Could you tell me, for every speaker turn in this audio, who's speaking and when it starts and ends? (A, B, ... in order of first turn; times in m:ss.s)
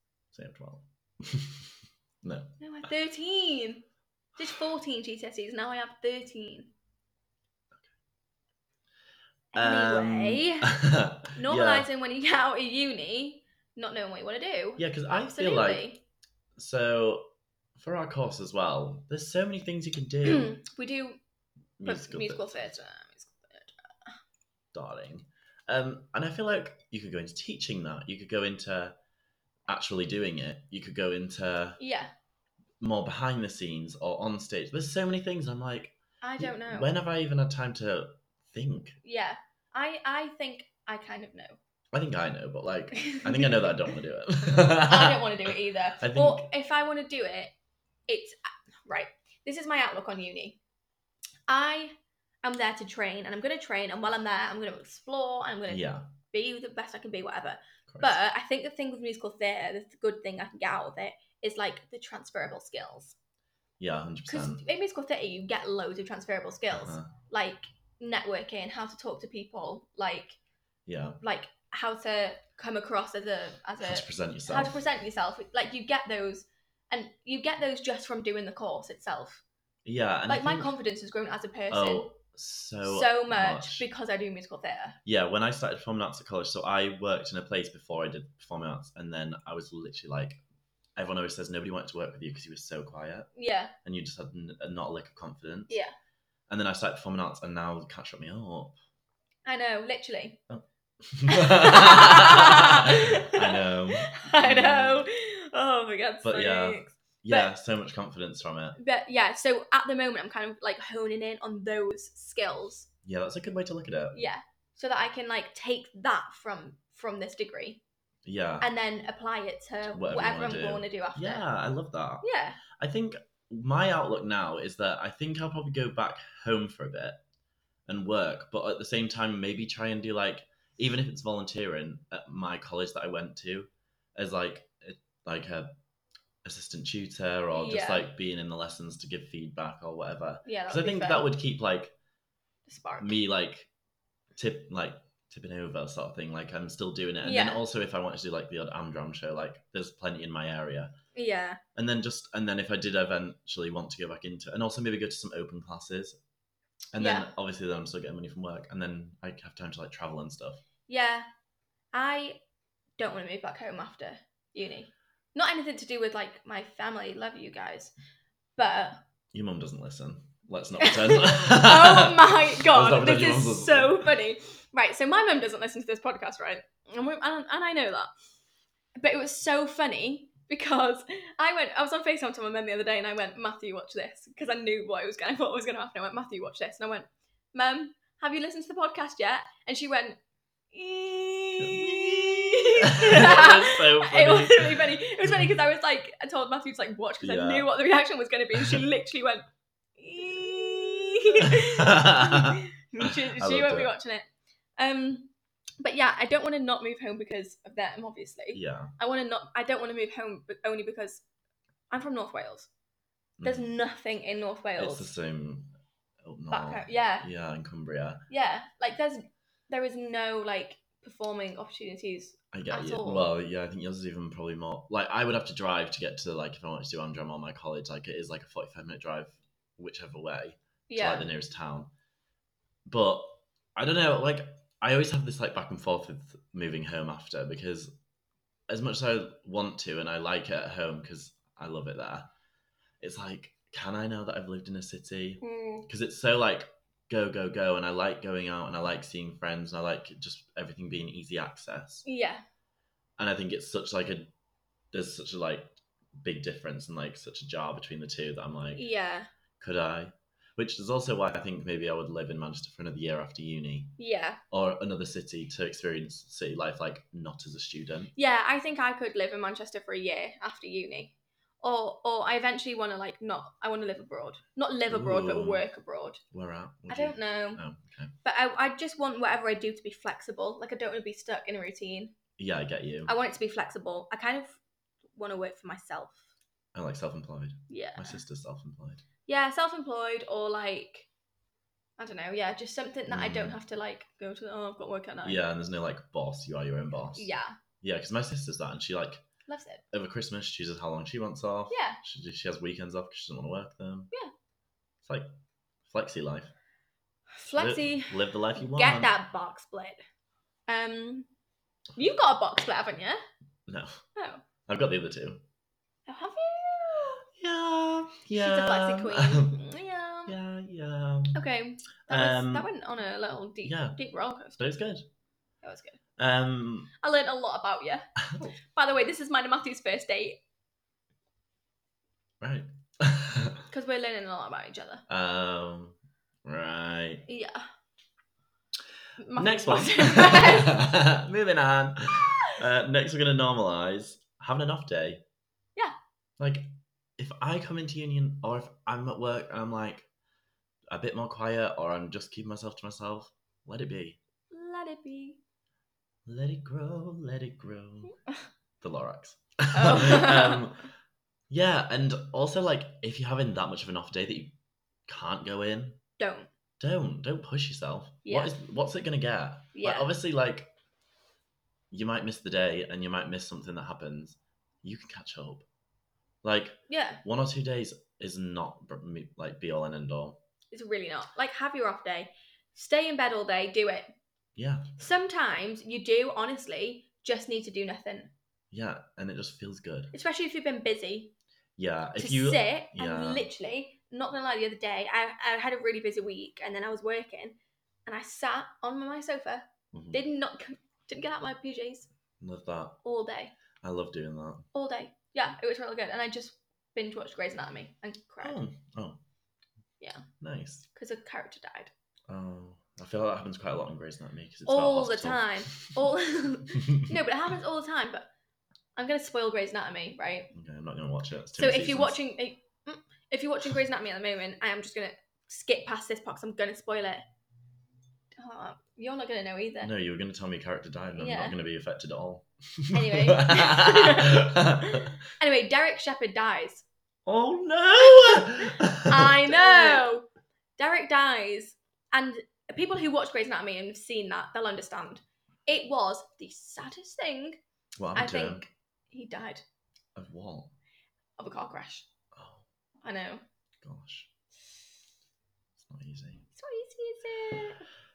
0:00.3-0:02.6 A
0:02.6-0:03.8 B
0:04.4-0:06.7 B
0:09.5-0:10.7 B
0:09.5-0:11.9 A
0:11.3-0:16.0 B
0:14.8-0:15.8 A
0:16.6-0:20.5 A
0:20.2-0:21.2 B
0:21.8-0:22.7 A
0:21.8-0:24.2 B
0:24.7-0:29.0 A
0:29.7-0:31.8 A
0:31.8-0:32.1 B
0:32.8-0:39.0 A
0:36.2-0:36.9 B
0:39.0-0:41.6 B
0:41.9-0:46.4 A
0:42.9-0:43.9 B
0:44.7-0:47.5 B
0:48.1-0:50.6 B
0:51.5-1:03.2 B
0:55.7-0:56.1 A
0:57.9-0:58.2 A
1:03.8-1:04.6 A
1:04.3-1:10.4 B
1:06.7-1:07.1 A
1:10.8-1:11.2 A
1:11.2-1:19.4 B
1:13.8-1:14.8 A
1:19.8-1:20.7 A
1:20.3-1:22.1 B
1:21.7-1:23.8 A
1:22.8-1:25.0 B
1:25.0-1:30.4 A
1:31.0-1:33.3 A
1:33.3-1:33.7 B
1:33.8-1:35.8 A
1:36.5-1:38.8 A
1:39.4-1:40.4 B
1:40.5-1:45.1 A
1:41.3-1:47.5 B
1:46.2-1:48.8 A
1:48.8-1:52.9 B
1:53.0-1:54.2 A
1:54.1-1:57.8 B
1:58.2-1:58.7 A
1:58.6-2:01.4 B
1:59.9-2:07.2 A
2:02.2-2:02.6 B
2:07.9-2:15.7 A
2:16.4-2:21.9 A
2:17.5-2:18.1 B
2:20.4-2:21.3 B
2:22.7-2:23.2 B
2:23.0-2:23.7 A
2:24.4-2:30.9 A
2:27.2-2:27.6 B
2:31.1-2:31.6 B
2:31.7-2:36.2 A
2:36.9-2:40.6 A
2:37.0-2:37.3 B
2:40.9-2:41.3 B
2:41.9-2:42.4 B
2:43.0-2:47.9 B
2:48.6-2:49.0 B
2:49.3-2:54.1 A
2:50.8-2:58.1 B
2:59.0-3:10.2 B
3:10.7-3:19.4 B
3:11.6-3:15.5 A
3:17.2-3:17.7 A
3:18.5-3:18.8 A
3:20.0-3:24.3 B
3:21.4-3:23.9 A
3:24.8-3:31.2 B
3:28.5-3:28.9 A
3:31.9-3:32.7 B
3:33.4-3:33.7 A
3:33.4-3:35.1 B
3:34.8-3:35.7 A
3:36.2-3:38.2 A
3:36.5-3:37.3 B
3:38.3-3:43.3 B
3:42.5-3:51.9 A
3:50.9-3:51.3 B
3:52.9-3:57.9 A
3:58.7-4:02.3 A
4:03.0-4:12.0 A
4:05.4-4:05.9 B
4:12.0-4:12.4 B
4:13.2-4:14.3 A
4:14.9-4:18.8 A
4:18.7-4:19.3 B
4:19.6-4:24.0 A
4:24.0-4:24.4 B
4:24.5-4:28.1 A
4:28.2-4:36.2 B
4:34.9-4:35.6 A
4:36.3-4:38.1 A
4:36.9-4:37.6 B
4:38.2-4:42.1 B
4:42.4-4:43.1 A
4:43.1-4:44.6 B
4:45.2-4:46.2 B
4:46.7-4:49.0 A
4:47.7-4:48.2 B
4:49.2-4:51.1 B
4:52.0-4:55.4 B
4:53.1-4:53.6 A
4:55.2-4:57.3 A
4:57.1-4:57.6 B
4:57.8-4:59.2 A
4:59.5-4:59.8 B
4:59.9-5:04.1 A
5:01.7-5:02.0 B
5:05.0-5:05.3 A
5:05.9-5:06.5 A
5:07.3-5:10.0 B
5:07.5-5:09.1 A
5:10.7-5:11.3 B
5:12.0-5:13.2 B
5:13.7-5:14.0 A
5:14.2-5:14.4 B
5:14.7-5:15.4 A
5:16.1-5:17.2 B
5:17.4-5:19.6 A
5:18.4-5:20.3 B
5:20.3-5:21.4 A
5:21.3-5:24.6 B
5:22.1-5:22.7 A
5:23.6-5:24.0 A
5:24.6-5:25.0 A
5:25.6-5:26.0 B
5:26.2-5:26.9 A
5:27.0-5:28.1 B
5:28.2-5:28.5 A
5:28.6-5:30.4 B
5:32.4-5:33.6 A
5:33.7-5:35.0 B
5:35.1-5:37.2 A
5:37.3-5:37.7 B
5:39.2-5:40.9 B
5:39.4-5:45.2 A
5:46.4-5:50.1 A
5:50.9-5:54.2 A
5:54.5-5:55.4 B
5:56.2-5:58.2 A
5:58.8-6:00.9 A
5:59.7-6:00.7 B
6:01.5-6:04.6 A
6:05.1-6:06.0 A
6:06.2-6:06.5 B
6:06.8-6:10.7 A
6:08.2-6:08.5 B
6:09.7-6:10.1 B
6:11.9-6:15.6 A
6:16.4-6:20.4 A
6:16.9-6:17.2 B
6:20.7-6:24.1 B
6:24.6-6:24.9 A
6:25.0-6:28.3 B
6:28.7-6:30.1 A
6:30.1-6:31.3 B
6:31.8-6:33.5 A
6:32.2-6:42.1 B
6:39.9-6:40.2 A
6:42.4-6:43.0 A
6:43.0-6:43.5 B
6:43.8-6:44.7 A
6:44.7-6:48.6 B
6:48.4-6:49.2 A
6:50.0-6:50.2 B
6:50.4-6:50.9 A
6:50.9-6:51.9 B
6:52.3-6:56.0 A
6:54.7-6:58.3 B
6:56.8-6:57.1 A
6:59.0-7:00.5 B
7:00.5-7:02.2 A
7:01.6-7:07.2 B
7:08.4-7:09.9 B
7:09.8-7:15.1 A
7:11.2-7:11.5 B
7:12.9-7:16.8 B
7:17.2-7:20.0 A
7:18.3-7:20.2 B
7:20.8-7:27.6 B
7:28.0-7:28.6 A
7:28.1-7:29.6 B
7:30.2-7:30.7 A
7:31.4-7:32.1 B
7:32.3-7:32.6 A
7:33.0-7:33.4 B
7:33.8-7:34.3 A
7:35.8-7:36.4 A
7:36.5-7:37.8 B